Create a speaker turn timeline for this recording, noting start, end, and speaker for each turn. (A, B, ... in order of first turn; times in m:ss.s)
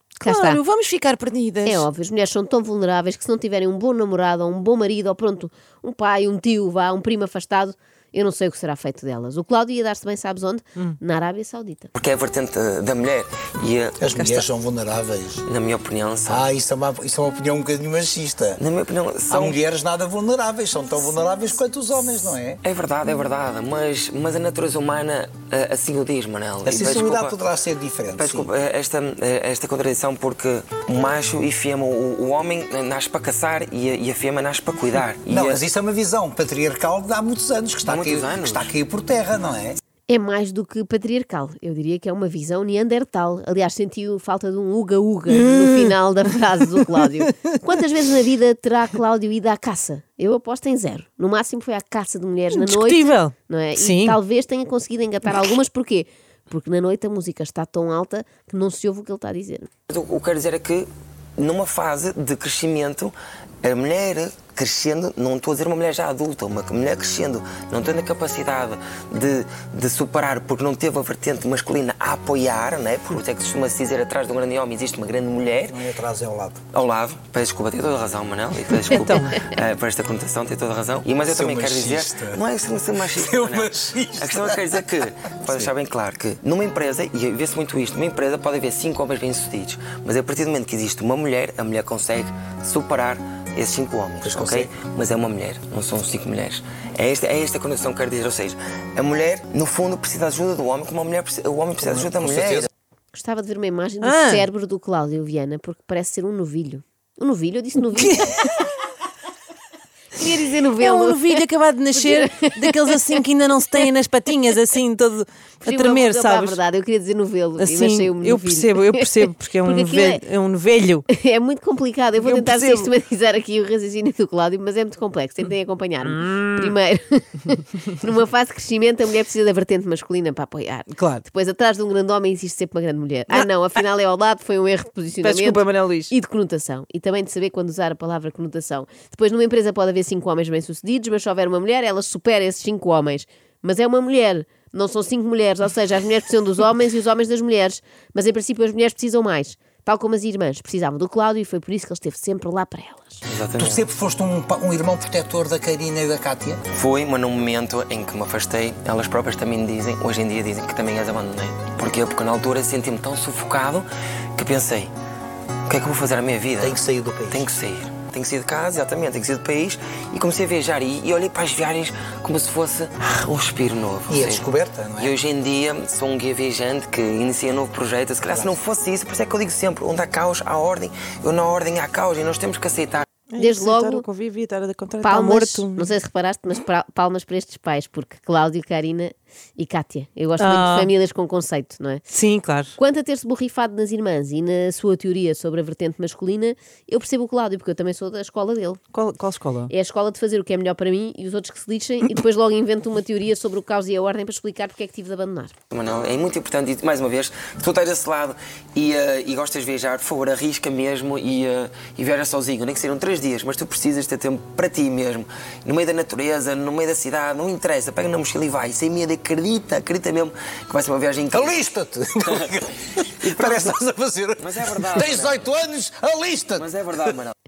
0:00.2-0:00.6 A
0:00.2-0:01.8 B
0:01.6-0:11.9 A
0:11.9-0:14.2 C
0:14.0-0:15.4 D
0:14.1-0:14.4 B
0:15.4-0:16.5 C
0:16.3-0:18.6 D
0:18.6-0:19.6 C
0:19.3-0:22.6 D
0:22.6-0:27.4 C
0:26.6-0:28.5 D
0:28.1-0:35.6 C
0:35.3-0:39.8 D
0:37.8-0:38.7 C
0:40.1-0:59.7 A
0:45.3-0:46.0 B
0:47.2-0:47.6 B
0:52.5-0:54.2 B
0:59.9-1:15.8 C
1:15.7-1:16.6 D
1:16.7-1:42.7 C
1:18.9-1:19.4 B
1:21.2-1:22.4 D
1:23.0-1:24.9 D
1:25.4-1:25.7 D
1:34.2-1:34.7 D
1:41.8-1:42.7 D
1:43.1-1:48.7 A
1:44.0-1:44.4 B
1:48.0-1:48.7 B
1:50.1-1:53.2 A
1:50.8-1:56.6 B
1:55.6-2:00.2 A
1:57.6-2:01.0 B
2:01.1-2:33.2 A
2:02.2-2:02.9 B
2:06.1-2:06.7 B
2:10.9-2:11.2 B
2:15.2-2:16.1 B
2:33.2-2:33.8 C
2:33.6-2:36.6 D
2:36.7-2:44.9 C
2:45.7-3:03.0 C
2:46.6-2:47.5 D
2:54.1-2:55.2 D
2:58.3-2:58.6 D
3:03.3-3:05.9 B
3:03.4-3:04.0 A
3:05.0-3:12.0 A
3:10.4-3:10.9 B
3:12.1-3:12.7 B
3:12.8-3:18.8 A
3:18.9-3:19.7 B
3:19.7-3:25.5 A
3:25.7-3:41.6 C
3:41.3-3:47.2 D
3:43.2-3:43.8 C
3:44.4-3:45.4 C
3:46.6-3:47.3 C